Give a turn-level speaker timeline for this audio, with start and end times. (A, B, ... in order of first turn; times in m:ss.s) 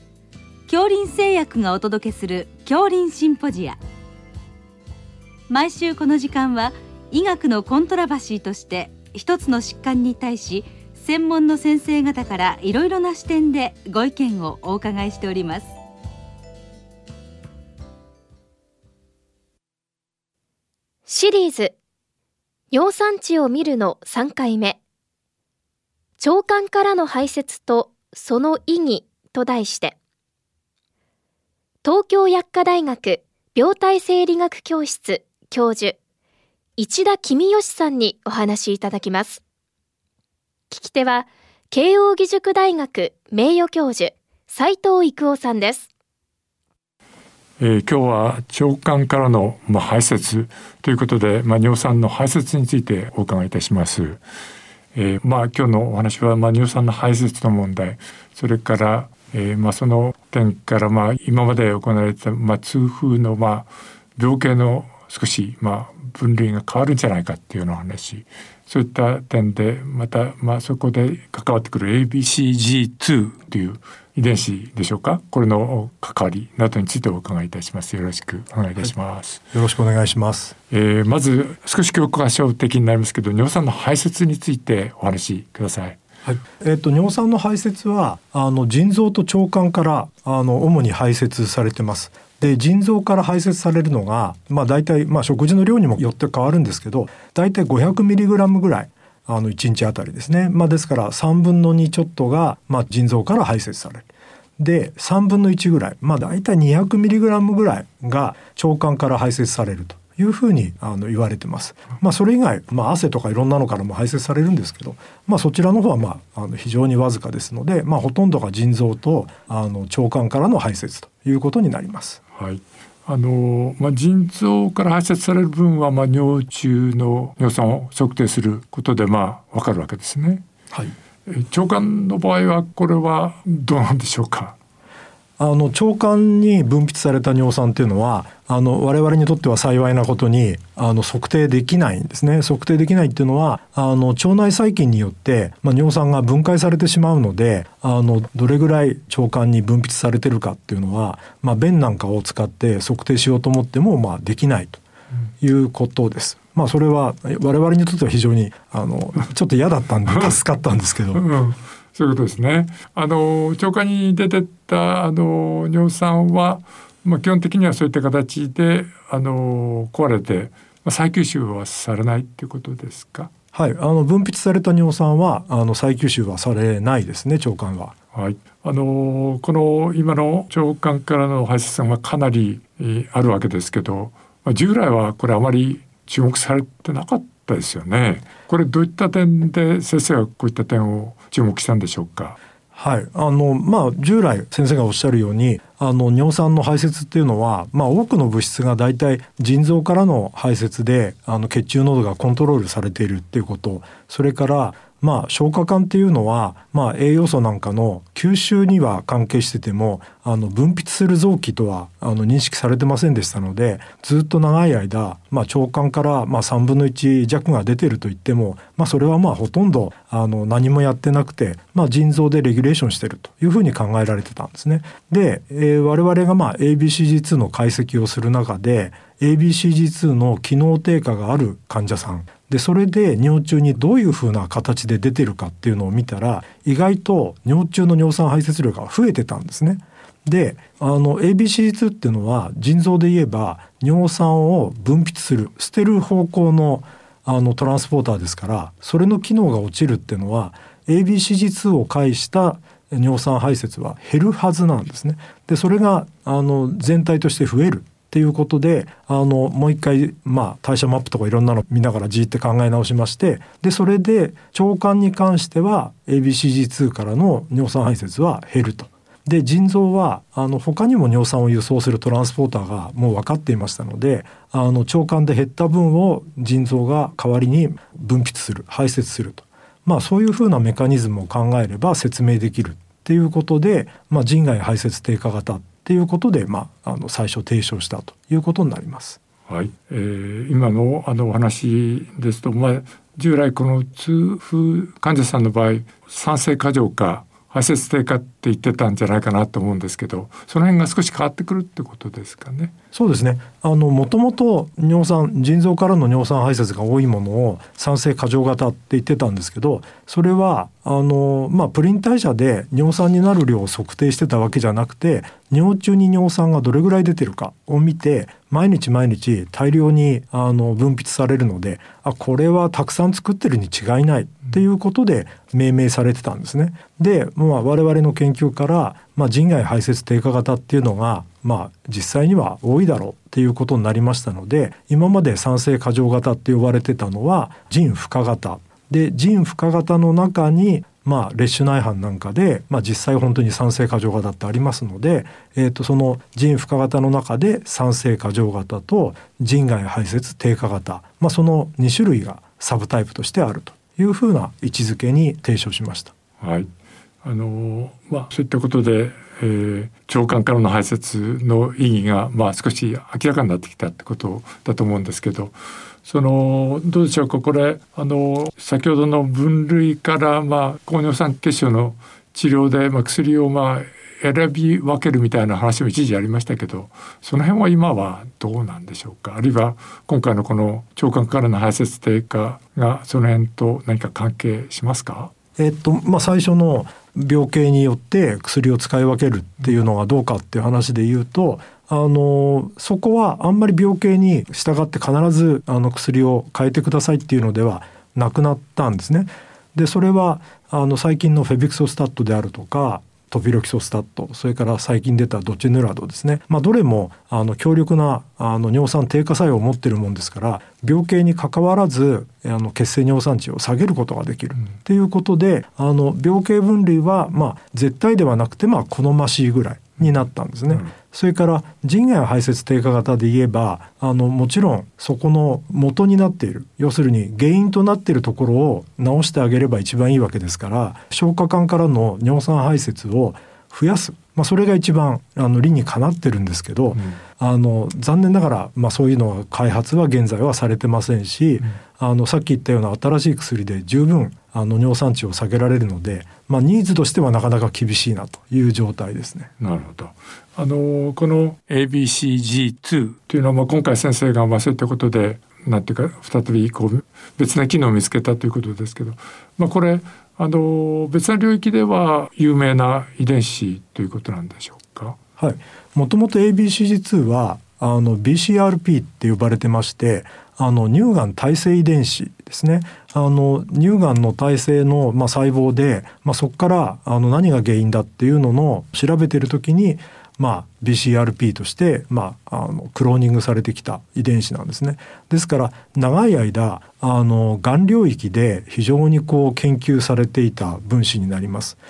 0:00.7-0:03.8 A
0:05.5-0:15.8 A
0:21.1-0:21.8 B
0:22.7-0:24.8 B
0:26.2-0:30.0 B
0:31.8-0:36.0 B
0:36.8-0:39.4 B
0:40.7-0:45.9 B
0:47.6-0:54.2 C
0:54.9-1:19.4 C
1:19.5-1:20.5 D
1:20.7-1:26.0 C
1:26.2-1:44.1 D
1:44.6-2:02.2 D
2:02.4-2:10.4 C
2:11.3-2:14.6 C
2:15.4-2:34.8 D
2:35.4-2:41.2 D
2:41.1-2:53.3 C
2:53.5-2:58.0 D
2:58.1-3:12.4 C
3:12.7-4:49.2 D
4:49.5-5:02.7 C
5:02.9-5:56.1 D
5:56.4-5:56.7 C
5:57.2-6:05.5 C
6:06.0-6:25.3 C
6:25.6-7:29.5 D
7:29.6-7:45.2 C
7:45.4-8:11.8 D